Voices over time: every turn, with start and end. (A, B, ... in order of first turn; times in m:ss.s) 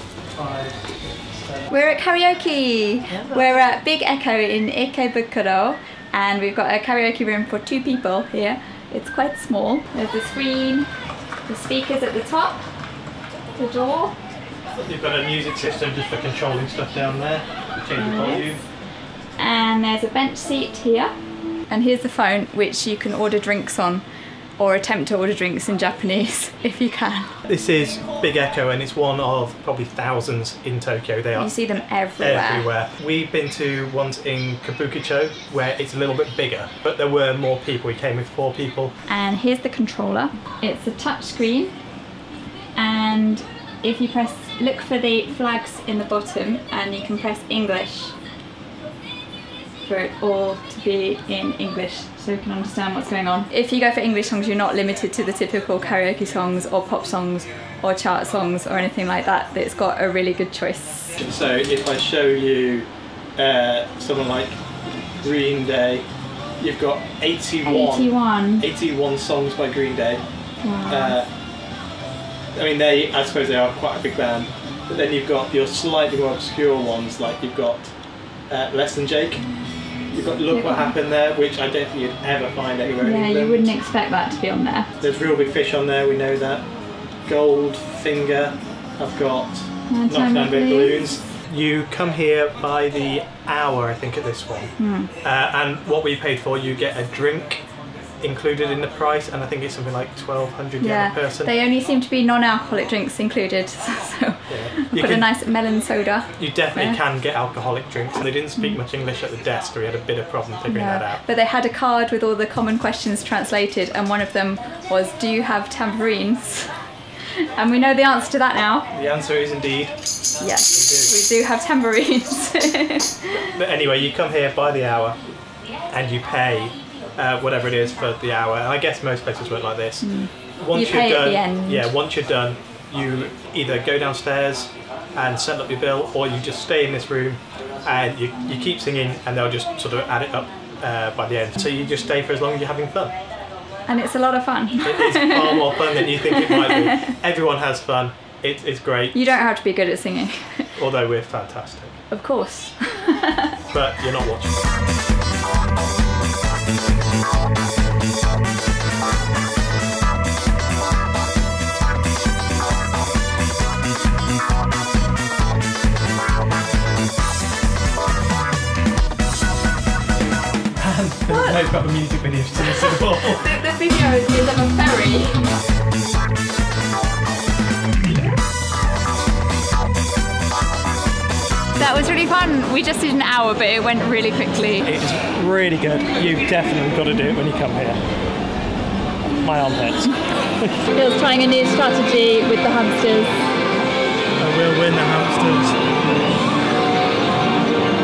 0:00.3-0:01.7 A
0:01.7-0:10.9 B
0:11.5-0:12.6 B
0:13.6-0:14.2 B
0:14.8-0:18.6 A
0:17.9-0:18.6 B
0:19.4-0:21.1 B
0:21.7-0:24.0 B
0:24.6-0:27.4 B
0:27.4-0:31.7 A
0:31.4-0:32.7 B
0:32.2-0:39.0 A
0:39.1-0:41.7 B
0:42.8-0:48.2 B
0:49.8-1:01.2 B
1:01.2-1:04.6 A
1:05.2-1:06.1 A
1:06.6-1:10.2 A
1:07.6-1:08.7 B
1:10.6-1:11.2 B
1:10.9-1:11.3 A
1:12.6-1:17.9 A
1:18.5-1:19.5 A
1:20.1-1:23.7 A
1:20.5-1:21.0 B
1:23.0-1:24.9 B
1:25.0-1:26.7 A
1:27.3-1:37.6 A
1:29.9-1:31.1 B
1:34.8-1:35.1 B
1:38.2-1:41.5 A
1:40.8-1:47.0 B
1:44.5-1:45.3 A
1:46.4-1:51.2 A
1:50.7-1:56.8 B
1:57.6-1:58.9 B
1:58.9-2:00.0 A
2:00.4-2:03.4 B
2:00.7-2:01.1 A
2:03.5-2:05.2 A
2:05.9-2:23.1 A
2:10.0-2:11.9 B
2:23.9-2:26.8 B
2:24.8-2:29.2 A
2:29.1-2:30.7 B
2:30.8-2:32.0 A
2:32.1-2:33.5 B
2:33.7-2:34.5 A
2:50.8-2:53.4 A
2:51.3-2:51.6 B
2:52.9-2:55.5 B
3:01.8-3:04.9 B
3:04.8-3:08.0 A
3:09.4-3:10.8 A
3:10.9-3:13.4 B
3:14.4-3:16.2 A